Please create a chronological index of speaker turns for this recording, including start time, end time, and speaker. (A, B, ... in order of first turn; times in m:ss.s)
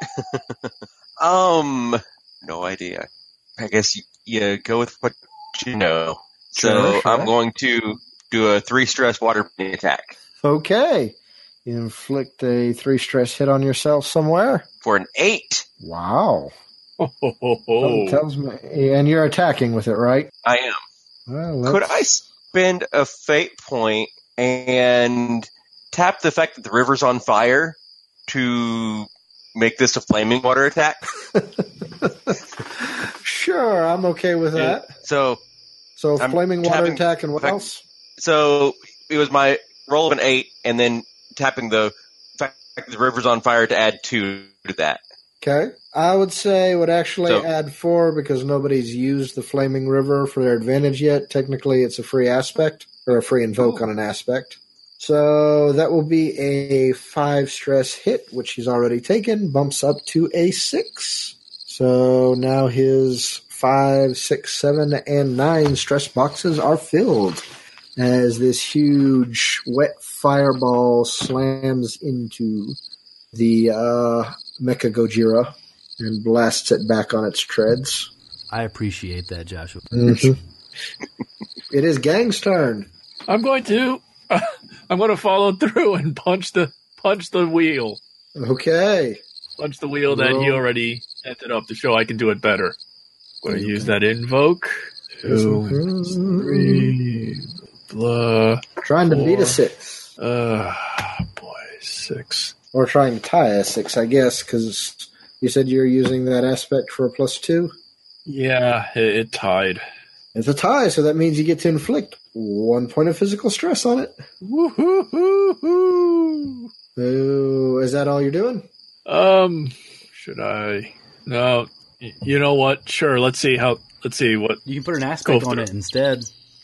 0:00.2-0:10.2 A
0:06.6-0:07.3 B
0:10.4-0:14.7 B
0:14.8-0:15.6 A
0:15.8-0:16.5 B
0:17.0-0:18.2 C
0:17.8-0:20.3 B
0:20.4-0:20.8 A
0:21.3-0:22.0 B
0:21.7-0:31.0 A
0:31.3-0:34.9 B
0:34.6-0:35.4 A
0:36.0-0:37.8 B
0:36.2-0:37.6 A
0:38.2-0:45.0 A
0:45.4-1:07.4 B
1:08.0-1:12.8 B
1:13.3-1:18.1 B
1:18.5-1:20.3 D
1:19.9-1:20.4 B
1:21.7-1:22.9 B
1:23.3-1:28.0 C
1:28.4-1:29.2 B
1:29.6-1:32.8 C
1:30.1-1:30.6 B
1:33.4-1:39.6 C
1:33.5-1:34.0 B
1:35.3-1:37.0 B
1:38.8-1:40.1 B
1:40.2-1:42.5 C
1:42.7-1:47.7 B
1:48.3-1:49.8 C
1:50.4-1:54.2 B
1:54.4-1:56.7 C
1:57.0-1:58.7 B
1:59.1-2:04.6 C
2:04.7-2:06.3 D
2:05.2-2:05.6 C